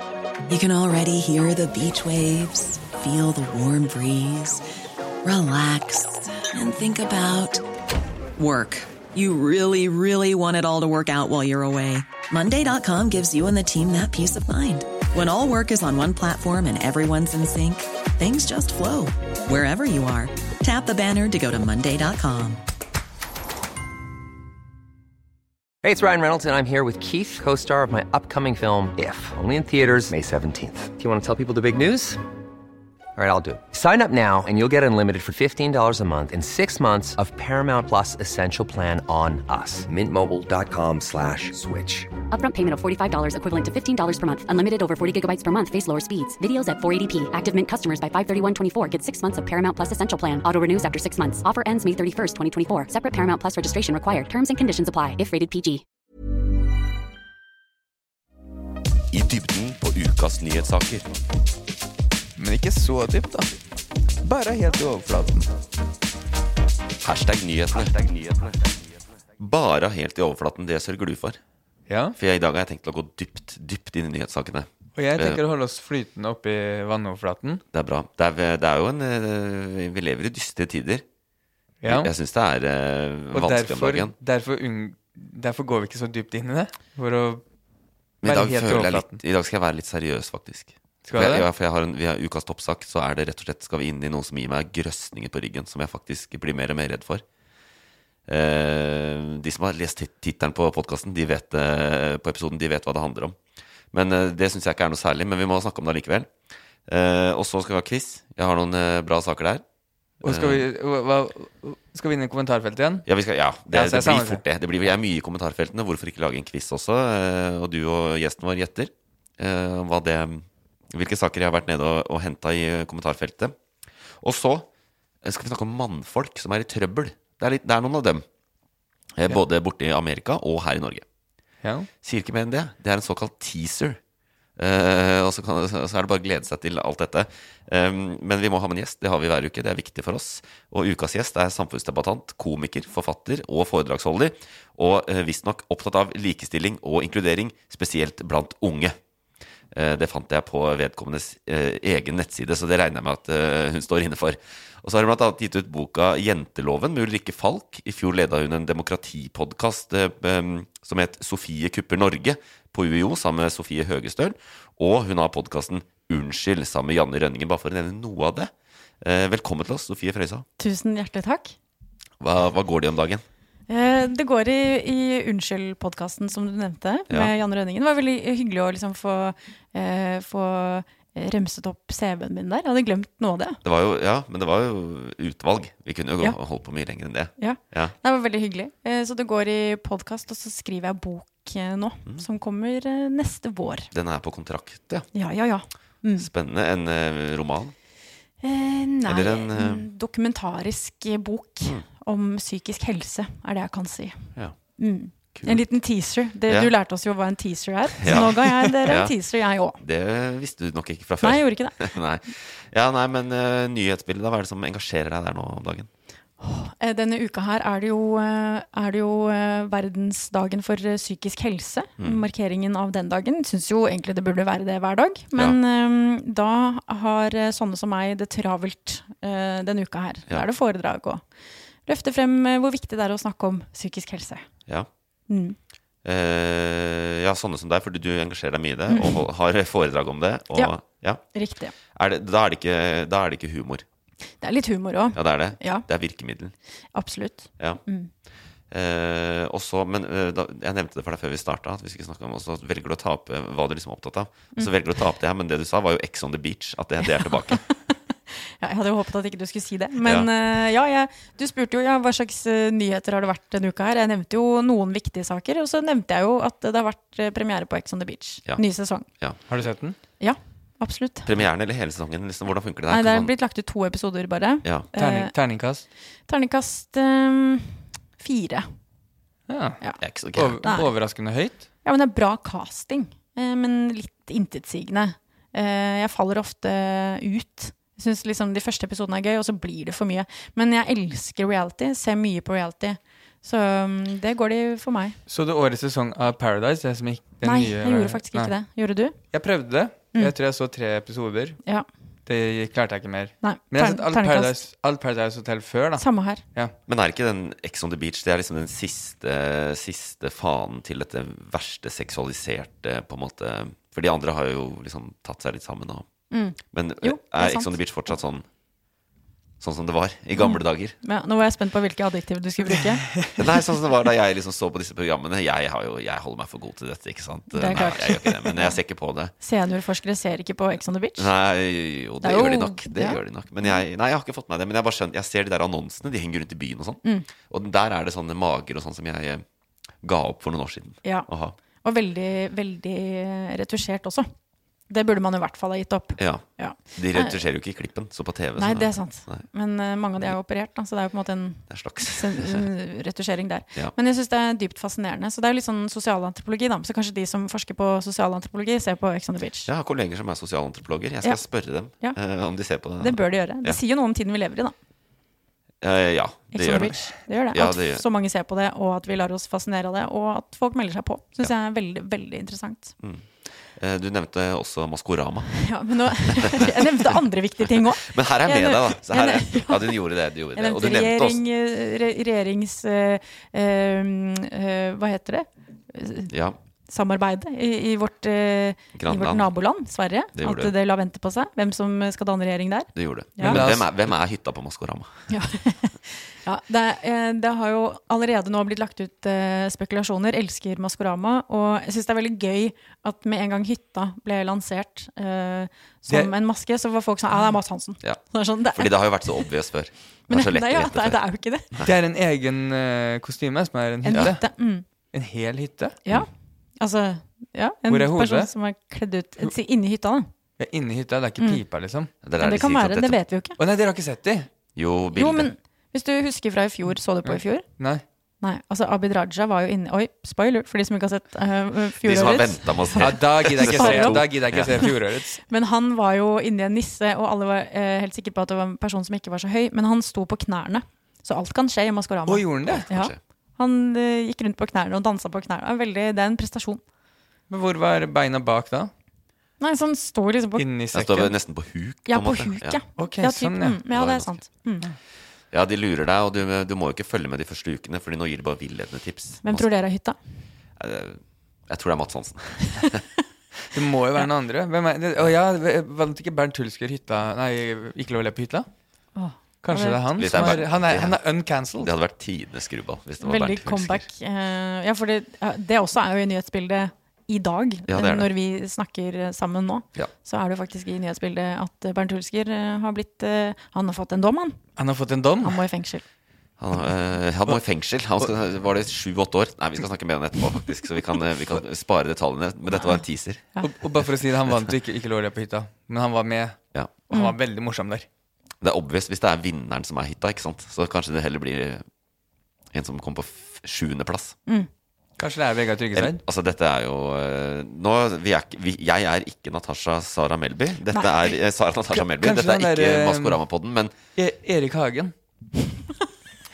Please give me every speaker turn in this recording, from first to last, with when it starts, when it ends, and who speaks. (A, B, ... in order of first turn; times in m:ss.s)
0:00.5-0:04.6 A
0:05.2-0:07.6 A
0:08.4-0:22.6 A
0:25.8-0:32.2 B
0:33.2-0:42.1 B
0:42.3-0:55.8 C
0:59.1-1:01.0 D
1:02.4-1:03.5 E
1:04.2-1:05.5 E
1:07.0-1:08.5 D
1:09.4-1:11.4 D
1:11.9-1:12.2 E
1:12.2-1:15.4 D
1:15.0-1:17.6 E
1:17.7-1:21.0 D
1:21.8-1:22.1 E
1:21.9-1:24.1 D
1:23.3-1:27.4 E
1:28.2-1:37.2 D
1:28.2-1:29.2 E
1:31.0-1:31.4 E
1:38.3-1:43.4 D
1:43.9-1:46.3 D
1:46.9-1:49.6 D
1:50.2-1:53.0 E
1:50.2-1:50.7 D
1:53.0-2:03.5 D
1:53.7-1:54.4 E
2:04.2-2:04.7 D
2:05.2-2:08.2 D
2:09.2-2:11.0 D
2:12.0-2:14.0 D
2:14.6-2:29.0 D
2:29.7-2:50.4 D
2:50.6-2:51.5 F
2:52.2-2:53.2 D
2:53.7-3:03.6 F
3:03.6-3:07.9 D
3:07.4-3:13.9 F
3:13.9-3:15.1 D
3:15.1-3:16.3 F
3:16.2-3:17.7 D
3:18.4-3:29.8 F
3:19.0-3:19.9 D
3:25.3-3:25.6 D
3:28.0-3:29.2 D
3:29.8-3:35.9 D
3:31.2-3:31.9 F
3:36.4-3:51.2 F
3:42.0-3:42.2 D
3:51.8-3:54.4 F
3:55.3-3:55.6 F
3:56.0-4:01.2 D
3:58.9-3:59.2 F
4:01.3-4:01.7 F
4:01.9-4:03.8 D
4:04.4-4:05.8 F
4:05.1-4:06.5 D
4:06.9-4:08.1 F
4:08.7-4:17.6 D
4:17.0-4:29.1 F
4:20.0-4:20.3 D
4:29.5-4:30.0 E
4:30.2-4:31.3 F
4:31.2-4:33.3 D
4:32.9-4:35.3 F
4:35.0-4:35.8 E
4:36.3-4:38.7 F
4:39.5-4:39.8 E
4:40.0-4:40.6 D
4:40.3-4:41.6 E
4:40.6-4:40.9 F
4:41.8-4:55.2 F
4:55.3-4:58.5 E
4:57.4-4:59.1 F
4:59.3-5:01.6 E
5:02.2-5:06.7 E
5:03.4-5:04.6 F
5:06.0-5:06.4 F
5:06.9-5:16.1 D
5:16.3-5:17.7 F
5:16.7-5:18.4 D
5:19.6-5:21.0 D
5:20.4-5:23.0 F
5:23.4-5:29.3 D
5:27.5-5:28.8 F
5:29.4-5:31.3 F
5:31.2-5:39.4 D
5:32.2-5:33.8 F
5:40.0-5:41.6 D
5:41.8-5:44.3 F
5:44.9-5:47.4 F
5:46.2-5:49.4 D
5:48.6-5:59.7 F
5:51.7-5:52.7 D
5:59.6-6:03.8 D
6:03.0-6:04.7 F
6:05.8-6:08.0 D
6:06.5-6:13.0 F
6:13.0-6:21.4 D
6:15.6-6:20.0 F
6:20.5-6:26.3 F
6:26.3-6:26.6 D
6:26.9-6:33.6 F
6:28.9-6:29.5 D
6:30.3-6:30.7 D
6:32.9-6:35.1 D
6:33.4-6:33.9 E
6:35.3-6:49.5 F
6:48.0-6:51.2 D
6:50.3-6:51.7 F
6:51.8-6:54.4 E
6:54.0-6:54.8 F
6:55.1-6:56.0 E
6:56.8-7:00.3 F
6:57.9-6:58.5 E
7:00.6-7:02.1 E
7:02.2-7:03.2 D
7:02.4-7:03.6 F
7:03.6-7:04.5 E
7:04.7-7:05.5 D
7:05.1-7:07.6 F
7:07.2-7:08.0 E
7:08.4-7:14.9 F
7:12.0-7:14.8 D
7:13.0-7:15.4 E
7:15.5-7:26.8 F
7:22.3-7:22.8 E
7:22.6-7:23.2 D
7:27.5-7:28.9 E
7:29.6-7:30.6 F
7:30.6-7:31.3 E
7:30.9-7:32.8 D
7:32.1-7:34.8 F
7:33.0-7:33.8 E
7:33.9-7:34.3 D
7:35.5-7:39.6 D
7:39.4-7:40.2 F
7:40.8-7:43.0 D
7:42.8-7:43.0 F
7:43.7-7:48.7 E
7:49.2-7:50.6 F
7:49.6-7:51.9 E
7:50.2-7:51.2 D
7:51.8-7:54.1 D
7:53.2-8:04.6 F
7:57.9-7:58.3 D
8:04.8-8:05.6 E
8:05.4-8:06.0 F
8:06.6-8:13.5 D
8:13.6-8:16.6 E
8:14.4-8:14.7 D
8:17.1-8:18.0 E
8:18.6-8:21.8 D
8:22.7-8:24.4 D
8:25.2-8:26.2 E
8:25.9-8:33.9 D
8:30.9-8:31.3 F
8:32.1-8:33.4 E
8:34.2-8:35.1 E